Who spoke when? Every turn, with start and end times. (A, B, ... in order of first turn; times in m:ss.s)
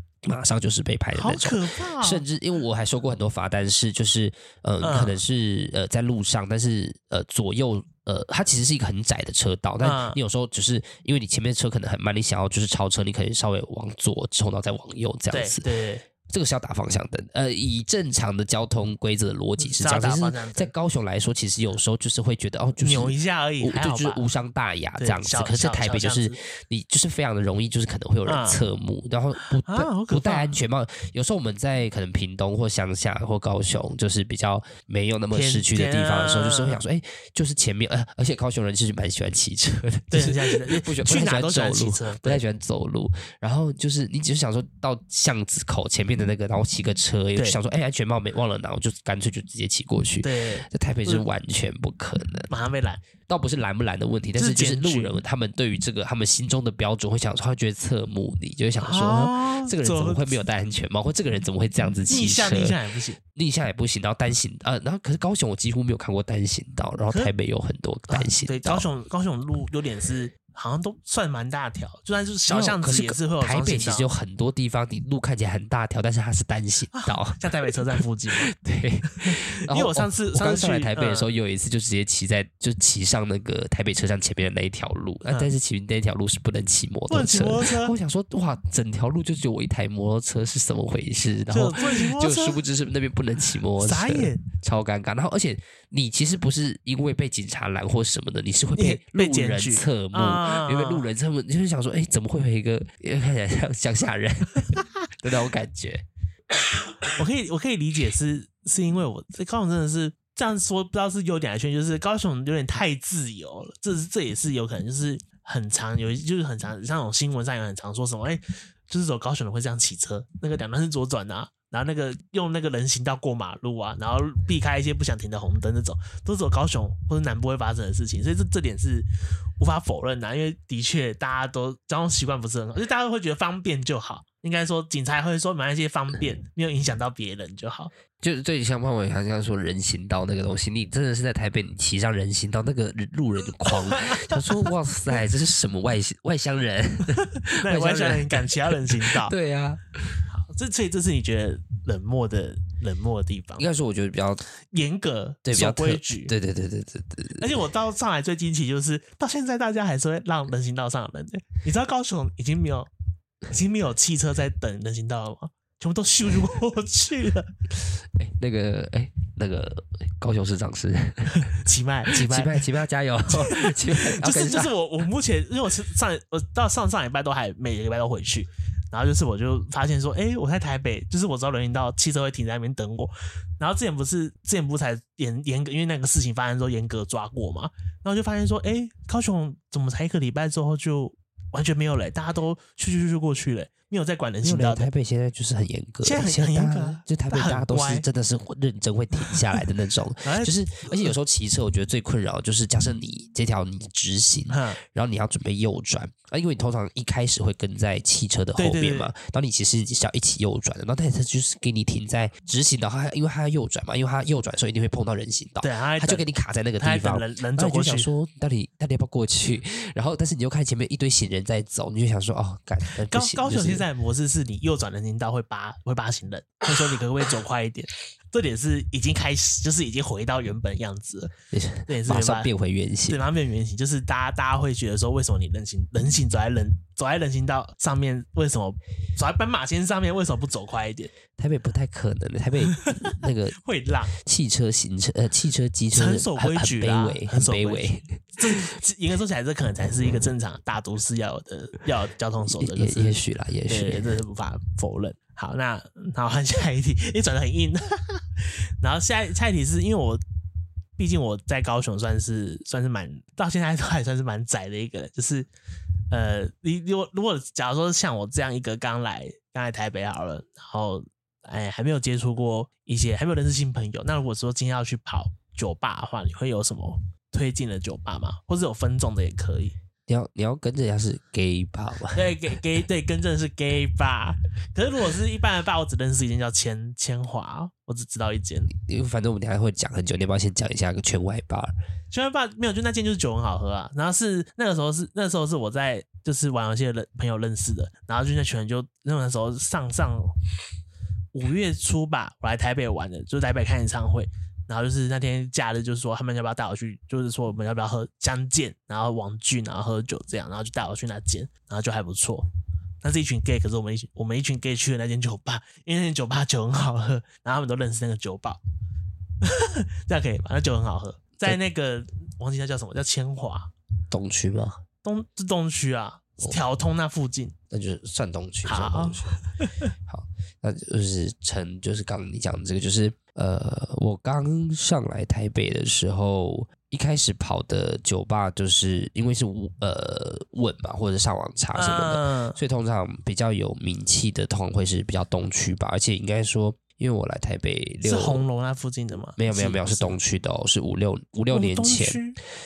0:00.2-0:15.6 A
0:01.1-0:02.2 B
0:04.8-0:05.2 B
0:09.8-0:10.2 B
0:15.3-0:16.0 B
0:16.3-0:52.5 A
0:19.6-0:20.7 B
0:22.8-0:24.2 B
0:25.0-0:26.4 B
0:28.2-0:28.6 B
0:29.4-0:30.6 B
0:35.3-0:36.8 B
0:40.1-0:42.4 B
0:50.2-0:51.2 B
0:52.5-0:53.0 B
0:53.3-1:08.8 A
0:54.3-0:55.2 B
0:58.8-1:00.4 B
1:02.1-1:03.2 B
1:08.1-1:14.1 B
1:12.5-1:46.0 A
1:16.9-1:18.5 B
1:19.2-1:21.3 B
1:27.1-1:28.0 B
1:31.5-1:32.6 B
1:33.8-1:34.4 B
1:38.8-1:41.1 B
1:47.2-2:09.1 B
2:09.6-2:17.9 B
2:18.2-2:30.2 A
2:23.9-2:24.7 B
2:27.2-2:29.3 B
2:30.3-2:33.6 B
2:33.6-2:34.4 A
2:34.7-2:36.3 B
2:35.4-2:37.5 A
2:37.4-2:42.9 B
2:43.5-2:47.5 B
2:48.2-2:51.5 A
2:51.4-2:52.7 B
2:52.1-2:54.7 A
2:53.3-3:14.9 B
3:14.4-3:43.8 A
3:16.0-3:18.0 B
3:19.2-3:19.6 B
3:20.2-3:21.1 B
3:24.5-3:24.8 B
3:28.6-3:29.1 B
3:35.6-3:36.2 B
3:36.8-3:38.1 B
3:43.0-3:51.3 B
3:51.5-3:53.2 A
3:51.9-3:52.5 B
3:53.1-4:01.1 B
4:01.3-4:03.6 A
4:02.8-4:04.1 B
4:04.1-4:08.0 A
4:05.9-4:20.2 B
4:12.5-4:14.1 A
4:21.0-4:25.5 B
4:26.1-4:39.7 B
4:40.1-4:42.3 A
4:42.1-4:48.7 B
4:48.7-4:51.7 A
4:52.1-5:00.3 B
5:01.3-5:12.5 B
5:13.0-5:18.6 B
5:19.4-5:23.7 B
5:24.1-5:24.8 A
5:25.0-5:27.5 B
5:27.7-5:29.4 A
5:28.6-5:29.9 B
5:30.0-5:48.4 A
5:41.7-5:42.6 B
5:48.0-5:50.2 B
5:49.4-5:52.2 A
5:51.5-5:52.4 B